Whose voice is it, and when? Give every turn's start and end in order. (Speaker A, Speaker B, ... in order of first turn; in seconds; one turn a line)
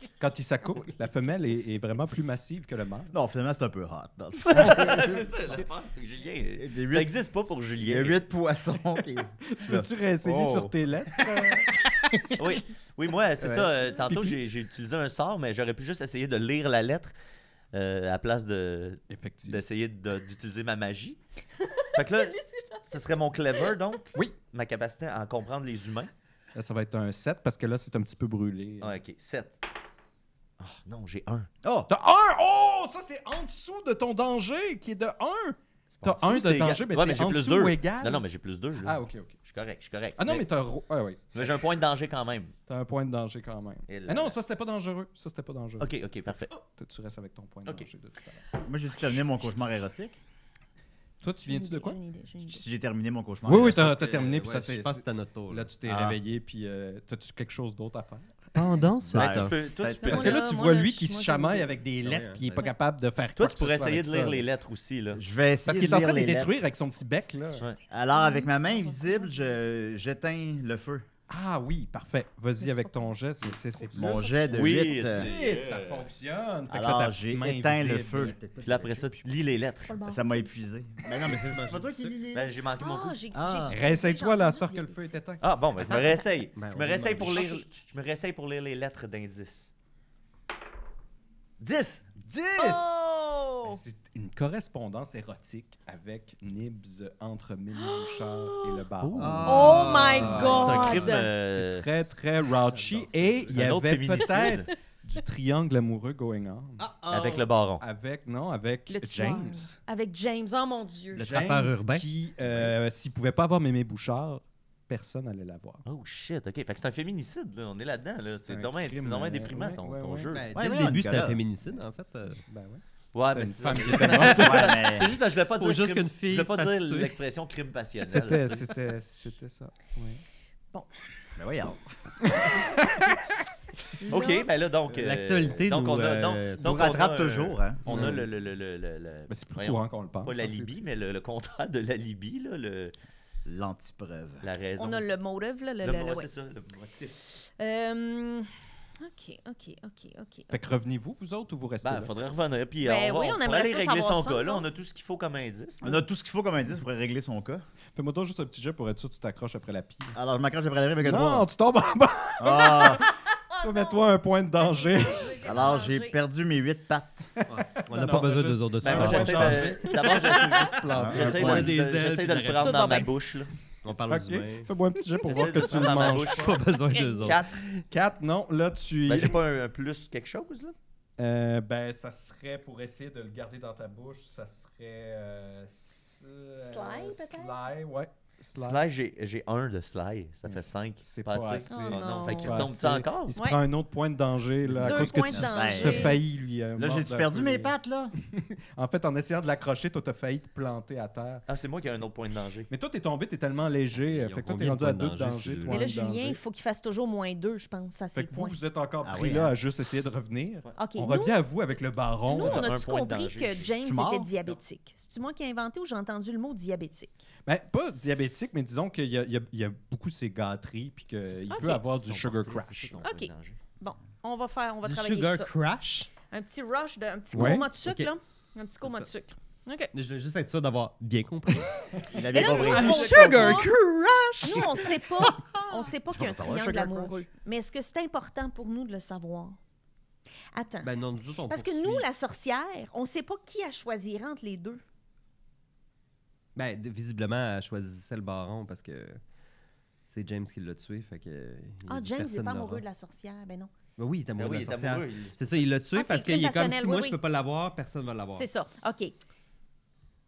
Speaker A: 0.2-3.1
Speaker B: 3.1-5.7
Speaker C: 4.4-8.2
Speaker B: 6.6-7.1
Speaker B: 7.8-10.8
Speaker A: 9.5-12.2
Speaker C: 12.4-17.1
Speaker B: 13.4-13.8
Speaker A: 14.0-14.4
Speaker C: 17.7-21.2
Speaker A: 19.1-19.6
Speaker D: 21.6-22.9
Speaker C: 21.9-26.1
Speaker A: 26.5-29.0
Speaker C: 28.8-29.6
Speaker C: 30.6-31.5
Speaker B: 31.6-31.9
Speaker A: 31.9-38.3
Speaker C: 35.9-40.5
Speaker A: 38.8-39.4
Speaker A: 40.2-41.2
Speaker C: 41.3-42.5
Speaker A: 42.7-48.4
Speaker C: 43.9-44.4
Speaker C: 45.8-46.6
Speaker B: 48.6-50.2
Speaker A: 51.2-52.0
Speaker D: 51.5-52.6
Speaker B: 52.5-54.0
Speaker A: 53.5-58.9
Speaker E: 53.8-55.7
Speaker B: 55.9-56.2
Speaker E: 58.5-59.5
Speaker B: 59.1-60.3
Speaker C: 59.1-60.5
Speaker D: 60.0-61.7
Speaker A: 60.1-64.5
Speaker E: 62.0-62.7
Speaker C: 63.4-65.2
Speaker B: 65.2-66.5
Speaker A: 65.7-67.7
Speaker B: 67.9-71.1
Speaker D: 68.1-69.9
Speaker A: 71.3-74.3
Speaker D: 72.6-75.0
Speaker B: 73.9-75.3
Speaker C: 74.5-76.1
Speaker A: 75.0-78.4
Speaker B: 76.7-78.3
Speaker E: 78.1-79.2
Speaker C: 78.6-80.0
Speaker D: 79.8-80.5
Speaker B: 80.0-82.6
Speaker E: 81.2-82.2
Speaker C: 82.3-83.2
Speaker D: 82.8-85.2
Speaker B: 83.3-83.8
Speaker A: 83.7-85.4
Speaker C: 85.4-89.7
Speaker D: 85.8-86.3
Speaker E: 86.6-87.5
Speaker C: 91.6-92.2
Speaker A: 92.2-93.1
Speaker D: 92.6-93.8
Speaker A: 93.6-106.9
Speaker D: 97.8-98.8
Speaker C: 99.0-99.4
Speaker E: 99.1-101.1
Speaker D: 99.5-101.3
Speaker C: 100.2-101.9
Speaker C: 102.7-104.7
Speaker E: 102.8-103.6
Speaker E: 106.8-107.5
Speaker C: 107.1-107.8
Speaker A: 107.8-109.8
Speaker D: 108.9-111.3
Speaker E: 111.2-112.0
Speaker A: 111.2-115.8
Speaker C: 112.4-112.7
Speaker C: 115.8-120.8
Speaker A: 118.5-120.3
Speaker E: 120.3-122.4
Speaker B: 120.5-121.4
Speaker A: 122.5-124.8
Speaker C: 123.1-128.9
Speaker E: 124.0-127.2
Speaker B: 124.2-125.1
Speaker A: 128.0-130.2
Speaker B: 131.4-131.8
Speaker A: 132.3-133.1
Speaker D: 134.0-134.5
Speaker C: 134.1-142.9
Speaker E: 134.9-136.8
Speaker B: 136.6-137.8
Speaker E: 137.9-138.2
Speaker A: 137.9-138.3
Speaker A: 139.3-140.8
Speaker B: 143.4-144.4
Speaker C: 144.4-145.1
Speaker D: 144.8-146.3
Speaker C: 145.8-147.2
Speaker D: 147.3-148.5
Speaker D: 149.0-150.6
Speaker A: 150.5-152.1
Speaker C: 151.8-156.0
Speaker D: 152.8-154.7
Speaker B: 155.8-157.6
Speaker A: 157.9-160.2
Speaker B: 160.2-161.5
Speaker A: 161.0-165.4
Speaker B: 162.4-163.1
Speaker D: 162.6-166.2
Speaker B: 165.4-167.3
Speaker A: 167.4-171.8
Speaker E: 167.5-169.9
Speaker C: 168.8-173.5
Speaker B: 170.9-171.7
Speaker E: 171.2-173.1
Speaker D: 172.6-173.1
Speaker E: 173.8-174.8
Speaker A: 174.1-176.5
Speaker C: 175.2-176.6
Speaker E: 175.8-177.8
Speaker D: 176.6-177.4
Speaker C: 177.2-177.6
Speaker A: 177.9-179.4
Speaker C: 179.1-180.8
Speaker A: 181.2-188.8
Speaker D: 186.6-187.6
Speaker C: 188.6-193.4
Speaker A: 190.5-197.7
Speaker D: 191.7-192.7
Speaker B: 194.7-196.2
Speaker D: 194.8-196.2
Speaker B: 196.8-198.1
Speaker A: 198.3-201.4
Speaker C: 201.5-202.7
Speaker A: 202.7-206.4
Speaker E: 204.0-205.9
Speaker D: 205.7-208.6
Speaker A: 208.1-212.7
Speaker B: 209.0-209.5
Speaker D: 210.8-211.4
Speaker D: 212.3-217.1
Speaker C: 212.3-213.7
Speaker B: 213.8-214.3
Speaker A: 217.5-223.1
Speaker C: 221.2-223.6
Speaker D: 221.5-221.8
Speaker D: 223.0-225.5
Speaker E: 224.8-226.1
Speaker D: 226.3-229.9
Speaker A: 227.3-227.7
Speaker E: 227.3-228.1
Speaker E: 228.8-229.1
Speaker E: 229.9-231.7
Speaker B: 232.1-233.6
Speaker D: 232.3-233.7
Speaker A: 232.5-233.7
Speaker E: 232.7-235.7
Speaker D: 234.4-239.6
Speaker B: 236.1-237.2
Speaker D: 240.6-240.9
Speaker E: 240.8-242.1
Speaker D: 241.5-244.8
Speaker E: 246.6-249.2
Speaker E: 250.1-252.8
Speaker D: 251.9-253.7
Speaker E: 254.0-258.5
Speaker C: 254.4-255.4
Speaker D: 255.9-257.2
Speaker D: 258.3-259.1